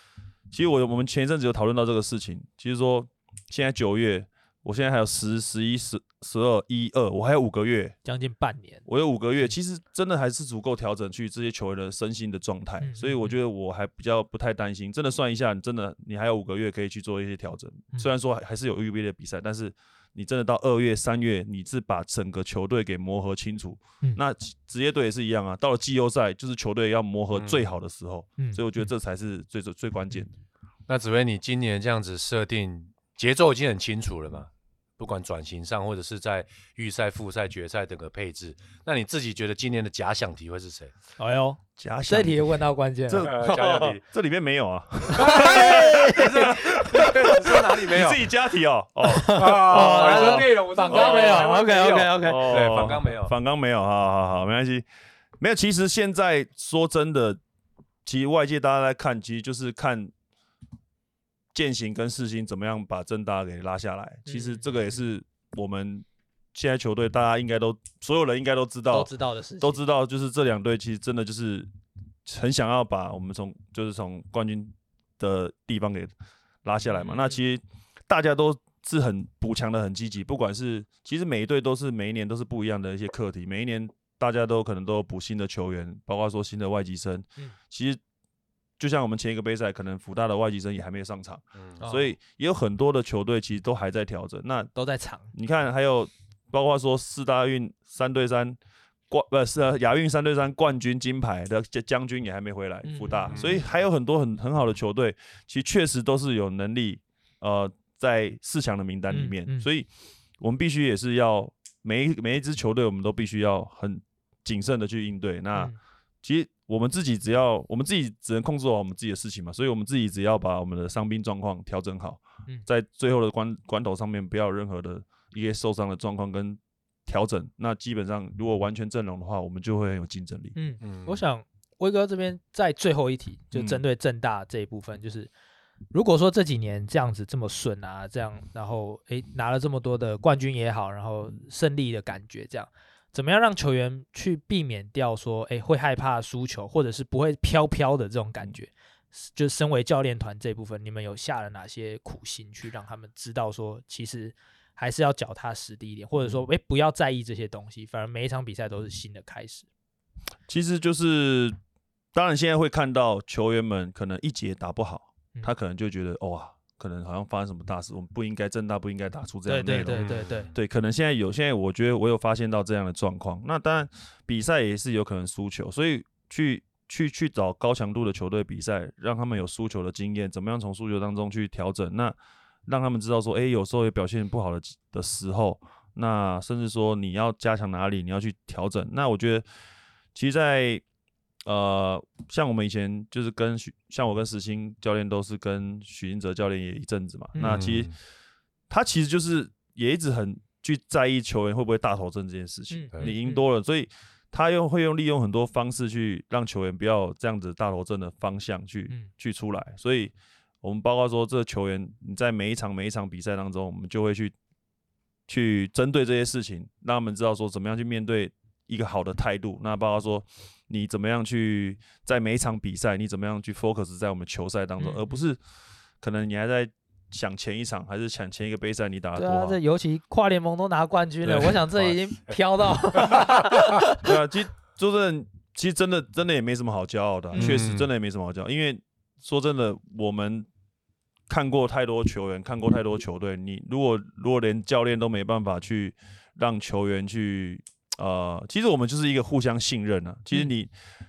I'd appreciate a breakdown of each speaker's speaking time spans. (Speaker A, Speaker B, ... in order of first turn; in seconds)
Speaker A: 0.5-8.0, 8.9-30.3, 41.8-42.5, 43.1-51.5, 52.2-54.9, 55.4-57.4, 58.0-60.1, 61.5-69.1, 69.6-71.7, 72.2-76.1, 76.6-88.0, 88.8-94.7, 95.3-98.6, 99.1-109.9, 110.4-130.5, 133.5-133.8, 160.5-161.6, 162.1-189.4, 190.1-190.8, 191.4-197.9, 198.7-214.3, 215.3-225.4, 226.0-229.6, 234.0-240.5, 241.3-250.7
Speaker B: 8.0-8.8, 12.8-13.4, 28.4-28.6, 41.2-43.9, 45.1-47.1, 49.0-52.4, 64.2-64.7, 68.9-69.8, 76.9-77.4, 91.8-92.1, 94.7-95.3, 102.8-103.6, 109.1-109.7, 130.6-135.3, 135.9-159.7, 169.5-170.5, 202.7-203.4, 224.8-225.1, 229.1-234.1, 237.3-237.6
Speaker C: 27.3-27.7, 30.9-40.9, 43.2-44.0, 45.2-48.2, 49.4-53.3, 103.3-103.6, 130.8-131.2, 169.9-170.6, 197.3-197.9, 231.2-233.2, 237.3-237.9